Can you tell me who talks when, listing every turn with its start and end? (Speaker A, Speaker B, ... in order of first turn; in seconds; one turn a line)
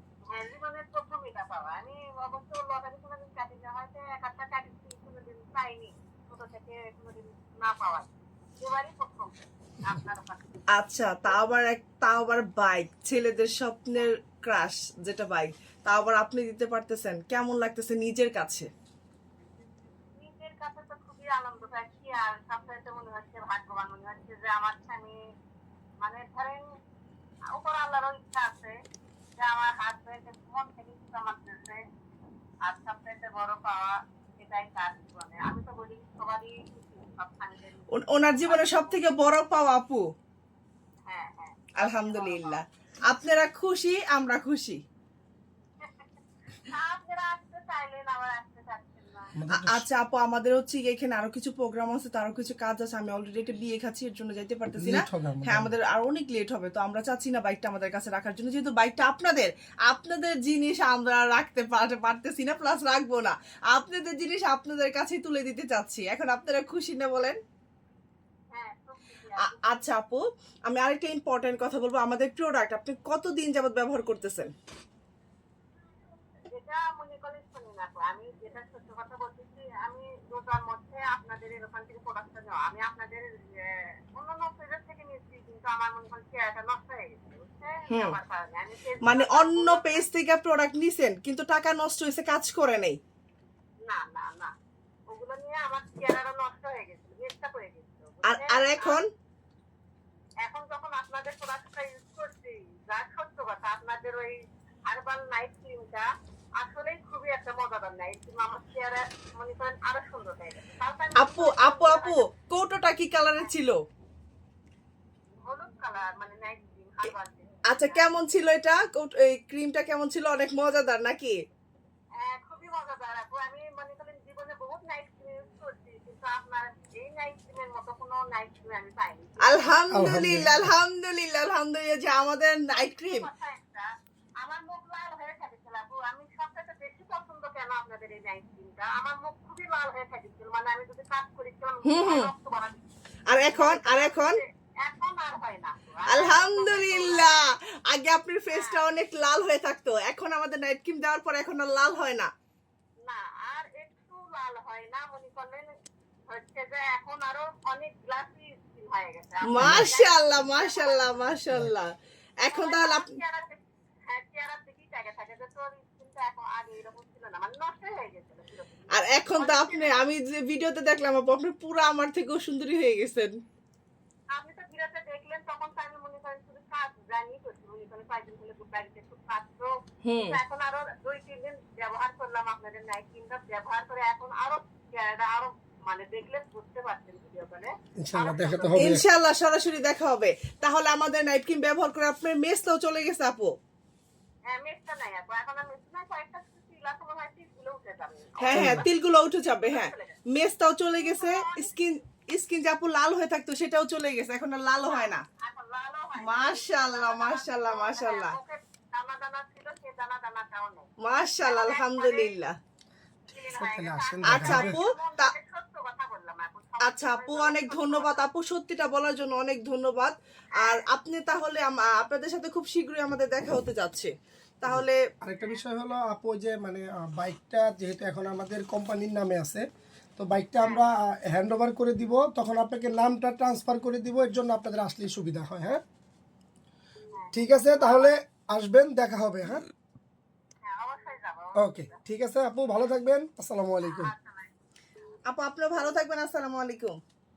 Speaker A: 0.2-10.6
Speaker B: 10.7-18.7
Speaker A: 20.1-25.1
Speaker A: 26.0-26.6
Speaker A: 27.5-28.7
Speaker A: 29.4-31.8
Speaker A: 32.7-39.0
Speaker B: 37.9-40.0
Speaker A: 41.1-42.6
Speaker B: 41.8-44.8
Speaker A: 46.7-49.3
Speaker C: 49.4-49.8
Speaker B: 49.5-67.4
Speaker C: 54.8-55.7
Speaker A: 68.5-69.7
Speaker B: 69.4-74.5
Speaker A: 76.5-90.0
Speaker B: 87.9-88.2
Speaker B: 89.0-93.0
Speaker A: 93.9-94.5
Speaker A: 95.1-99.0
Speaker B: 98.2-99.1
Speaker A: 100.4-104.3
Speaker A: 104.9-106.0
Speaker A: 106.6-112.2
Speaker B: 111.2-113.8
Speaker A: 115.4-118.0
Speaker B: 117.7-121.4
Speaker A: 122.2-129.7
Speaker B: 129.4-133.3
Speaker C: 129.9-130.7
Speaker A: 132.8-133.8
Speaker A: 134.4-142.8
Speaker B: 141.8-142.3
Speaker B: 143.3-144.4
Speaker A: 143.5-147.3
Speaker B: 146.1-152.3
Speaker A: 148.5-148.8
Speaker A: 153.1-155.7
Speaker A: 156.3-161.3
Speaker B: 159.4-163.1
Speaker C: 159.6-159.9
Speaker A: 162.5-170.1
Speaker B: 168.9-173.4
Speaker A: 174.3-189.0
Speaker B: 180.0-180.4
Speaker C: 188.0-189.0
Speaker B: 188.8-193.6
Speaker A: 194.5-200.2
Speaker B: 198.4-205.2
Speaker C: 198.5-198.8
Speaker A: 201.0-201.8
Speaker A: 204.8-210.9
Speaker B: 206.2-208.3
Speaker B: 211.0-212.5
Speaker A: 211.4-212.3
Speaker A: 213.3-218.2
Speaker C: 213.5-214.8
Speaker B: 214.2-215.3
Speaker B: 216.8-225.0
Speaker C: 224.7-229.6
Speaker C: 230.2-235.8
Speaker A: 237.1-238.1
Speaker C: 237.3-239.6
Speaker A: 240.6-242.0
Speaker C: 241.5-244.1
Speaker A: 243.8-244.5
Speaker B: 245.2-247.0